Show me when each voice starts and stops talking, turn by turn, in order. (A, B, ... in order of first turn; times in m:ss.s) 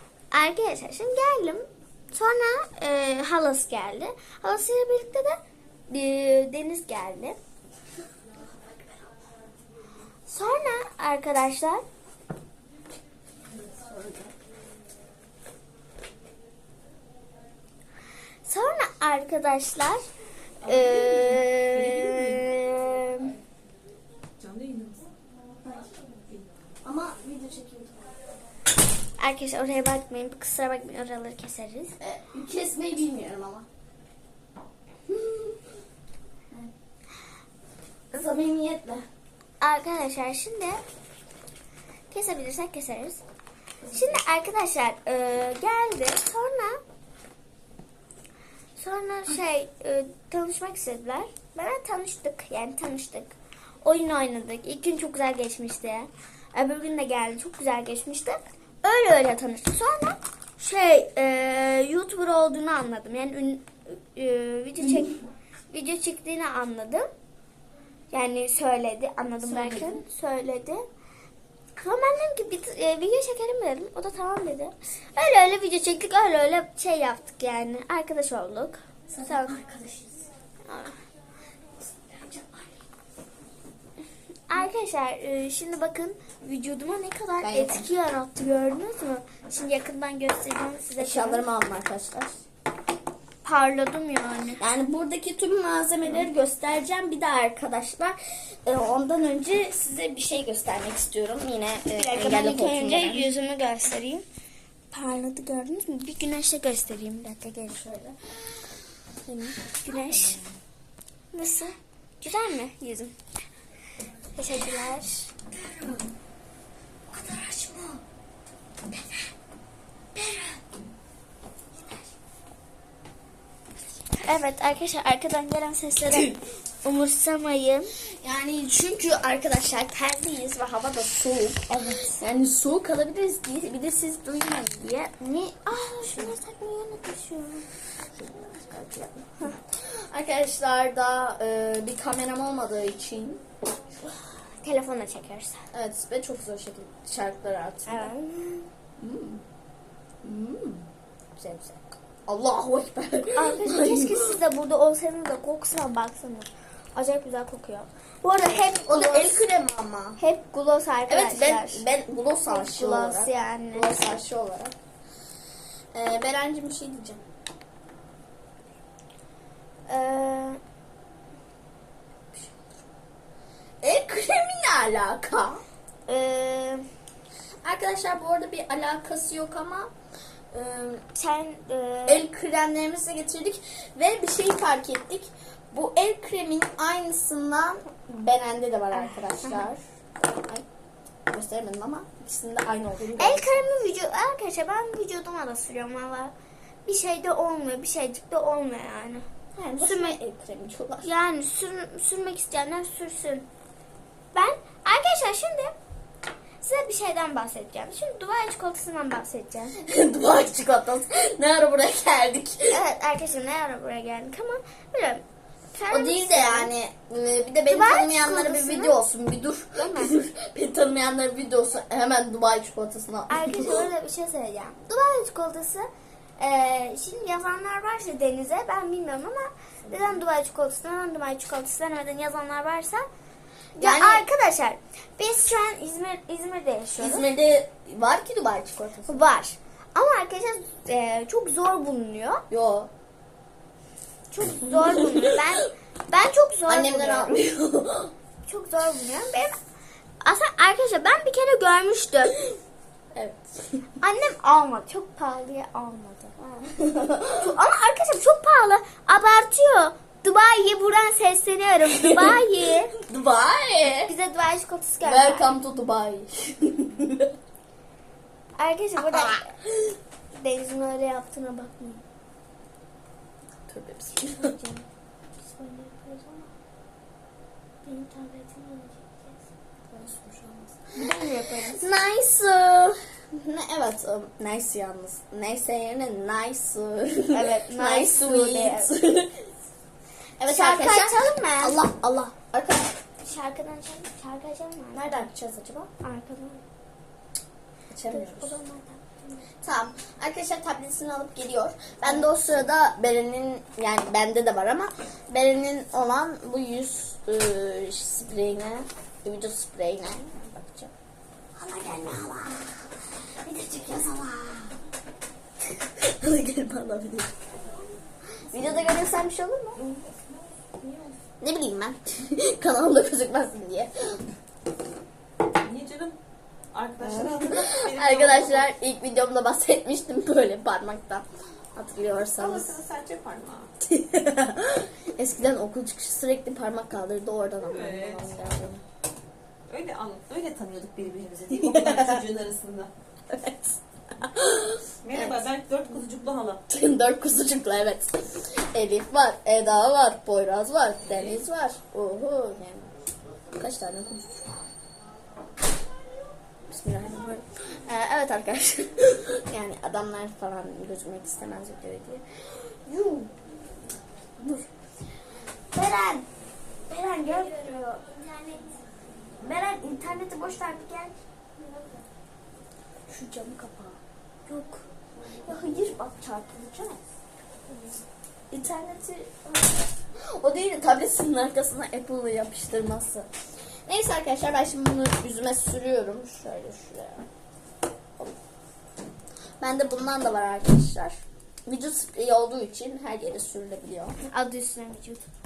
0:00.3-0:05.4 A
0:05.9-0:07.4 A
0:10.3-0:11.8 A
0:13.7-0:14.3 B
0:18.4-0:20.0 A
0:20.6-0:23.3 A
0:24.4-0:25.0 C
0:26.8-0:28.1 B
0:29.2-0:32.0 A
0:32.0-0:33.6 B
0:35.1-0:35.6 B
0:38.1-0:39.0 B
0:39.6-0:40.8 A
0:42.1-0:43.2 A
0:43.9-0:46.8 A
0:48.8-1:05.2 A
1:04.8-1:05.1 B
1:05.7-1:07.1 A
1:08.1-1:10.8 A
1:09.4-1:10.0 B
1:11.8-1:19.5 A
1:19.1-1:20.2 B
1:20.6-1:21.0 A
1:21.8-1:22.8 B
1:24.5-1:31.4 A
1:27.4-1:27.9 B
1:31.0-1:32.4 B
1:33.4-1:34.6 A
1:34.6-1:43.3 B
1:41.9-1:44.2 A
1:44.9-1:47.8 A
1:47.7-1:48.2 B
1:49.3-1:50.5 B
1:49.7-1:50.4 A
1:51.3-1:53.1 A
1:54.4-1:55.3 A
1:55.6-1:56.1 B
1:57.1-1:58.0 B
2:00.2-2:00.6 B
2:04.2-2:07.9 A
2:06.1-2:06.4 B
2:08.2-2:17.3 B
2:11.7-2:12.2 A
2:15.9-2:17.6 A
2:18.1-2:23.4 B
2:24.6-2:25.6 A
2:25.7-2:28.1 B
2:27.9-2:28.7 A
2:29.0-2:29.4 B
2:30.2-2:30.8 B
2:31.4-2:34.4 B
2:33.4-2:39.4 A
2:38.8-2:40.2 B
2:40.2-2:41.8 A
2:41.1-2:44.7 B
2:42.5-2:44.0 A
2:45.9-2:47.2 B
2:49.9-2:50.6 A
2:53.8-2:55.6 B
2:56.1-2:56.8 A
2:57.6-2:59.9 B
3:00.5-3:01.0 B
3:01.1-3:02.2 A
3:02.0-3:10.6 B
3:11.3-3:13.6 B
3:13.2-3:16.3 A
3:16.8-3:19.3 A
3:19.5-3:21.1 B
3:19.8-3:20.2 A
3:21.0-3:23.4 A
3:24.3-3:25.7 A
3:26.6-3:29.8 A
3:29.8-3:32.8 B
3:32.7-3:36.7 A
3:35.9-3:43.8 B
3:37.7-3:39.0 A
3:39.7-3:40.1 A
3:43.3-3:53.0 A
3:49.8-3:50.2 B
3:53.8-3:57.3 A
3:53.8-3:54.3 B
3:57.0-3:59.2 B
3:59.1-4:02.4 A
4:02.5-4:02.9 B
4:04.3-4:07.4 A
4:04.6-4:05.4 B
4:06.7-4:08.1 B
4:08.5-4:09.6 A
4:10.2-4:12.4 A
4:13.1-4:13.8 B
4:14.0-4:16.7 A
4:16.8-4:17.6 B
4:17.3-4:22.9 A
4:21.9-4:24.1 B
4:24.1-4:25.5 A
4:25.0-4:27.3 B
4:28.6-4:29.6 A
4:29.0-4:29.9 B
4:30.3-4:32.0 A
4:33.7-4:34.5 B
4:34.4-4:34.8 A
4:35.4-4:36.5 A
4:37.8-4:39.4 A
4:39.9-4:40.8 B
4:40.9-4:41.8 A
4:41.7-4:49.5 B
4:47.3-4:48.9 A
4:50.4-4:52.9 B
4:50.4-4:51.8 A
4:53.2-4:55.2 A
4:54.9-4:55.9 B
4:56.0-4:56.6 A
4:57.9-4:58.6 B
4:58.1-4:59.4 A
4:59.6-5:10.9 B
5:11.6-5:12.6 B
5:13.4-5:14.7 B
5:15.8-5:17.3 B
5:18.5-5:19.8 B
5:19.7-5:21.2 C
5:21.4-5:24.2 B
5:25.6-5:26.2 C
5:26.7-5:28.7 C
5:27.0-5:32.7 B
5:32.4-5:33.7 C
5:33.8-5:38.8 B
5:37.6-5:38.2 C
5:39.7-5:42.9 C
5:41.5-5:42.2 B
5:43.3-5:45.4 B
5:45.0-5:46.6 C
5:46.7-5:52.9 B
5:53.6-5:54.7 B
5:56.7-6:02.2 B
6:02.8-6:03.3 B
6:04.4-6:04.7 B
6:05.8-6:06.2 A
6:06.9-6:08.8 A
6:09.4-6:12.0 A
6:13.1-6:14.0 B
6:14.5-6:14.8 A
6:15.5-6:16.9 B
6:17.7-6:18.0 A
6:18.5-6:23.3 B
6:23.9-6:27.2 B
6:29.6-6:34.2 B
6:34.2-6:35.3 A